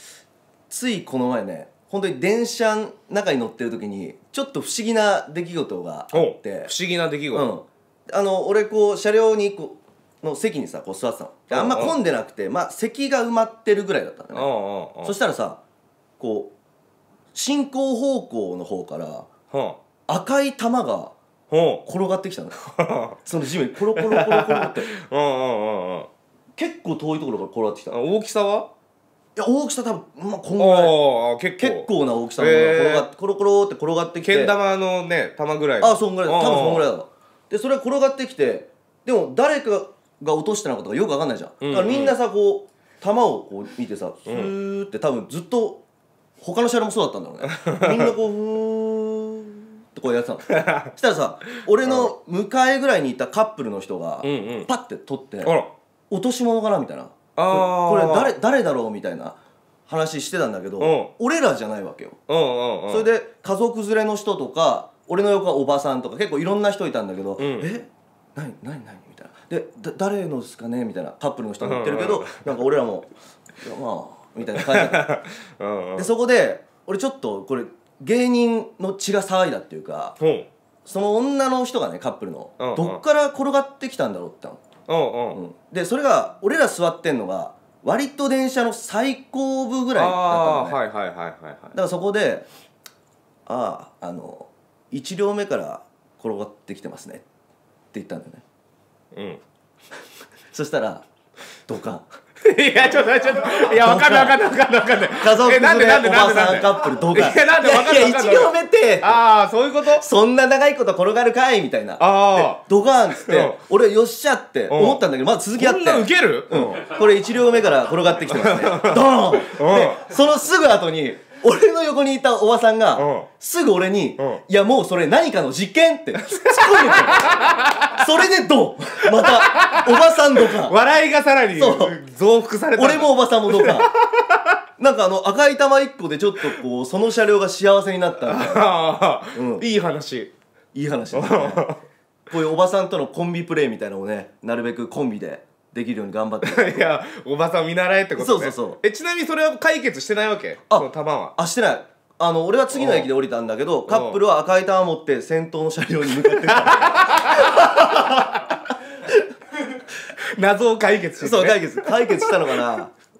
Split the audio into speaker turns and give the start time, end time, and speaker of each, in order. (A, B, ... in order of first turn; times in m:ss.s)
0:00.7-0:06.7 A
0:06.1-0:07.5 B
0:07.3-0:14.5 A
0:11.5-0:12.0 B
0:14.3-0:15.1 B
0:15.0-0:15.6 A
0:16.2-0:16.5 A
0:17.3-0:19.3 A
0:19.5-0:19.8 B
0:20.1-0:21.1 A
0:21.5-0:21.8 B
0:21.8-0:22.6 A
0:22.8-0:23.2 B
0:23.2-0:24.9 A
0:24.0-0:26.1 B
0:26.6-0:28.0 A
0:27.9-0:28.7 B
0:29.4-0:31.0 A
0:30.6-0:33.1 B
0:31.6-0:34.5 A
0:34.2-0:36.8 B
0:35.8-0:45.8 A
0:41.6-0:42.1 B
0:46.4-0:55.5 A
0:47.5-0:48.1 B
0:50.5-0:50.9 B
0:51.8-0:52.1 B
0:54.2-0:54.7 B
0:55.4-0:55.7 B
0:56.1-1:02.2 A
0:57.4-0:58.3 B
1:00.8-1:01.1 B
1:02.3-1:03.1 B
1:02.9-1:15.1 A
1:07.4-1:07.6 B
1:11.6-1:12.5 B
1:14.6-1:16.1 B
1:16.0-1:20.2 A
1:20.2-1:20.5 B
1:20.8-1:24.6 A
1:22.6-1:23.0 B
1:24.9-1:25.4 B
1:25.3-1:30.8 A
1:29.9-1:31.8 B
1:31.7-1:32.4 A
1:33.4-1:37.2 A
1:37.9-1:38.4 A
1:39.1-1:39.4 B
1:40.5-1:41.0 A
1:41.6-1:42.0 A
1:42.4-1:50.0 B
1:43.7-1:44.4 A
1:45.2-1:49.2 A
1:49.8-2:10.8 A
1:52.0-1:52.6 B
1:53.2-1:53.6 B
1:54.7-1:55.0 B
1:55.6-1:56.8 B
1:58.3-2:00.0 B
2:03.0-2:03.3 B
2:06.5-2:08.0 B
2:09.0-2:14.6 B
2:11.6-2:12.0 A
2:12.8-2:13.9 A
2:14.8-2:18.7 A
2:18.2-2:20.3 B
2:19.3-2:19.6 A
2:20.7-2:21.7 A
2:21.1-2:21.8 B
2:22.3-2:27.0 A
2:26.4-2:31.3 B
2:28.2-2:28.8 A
2:30.7-2:38.3 A
2:32.7-2:33.1 B
2:33.9-2:34.2 B
2:36.3-2:38.6 B
2:40.2-2:42.3 B
2:41.2-2:42.9 A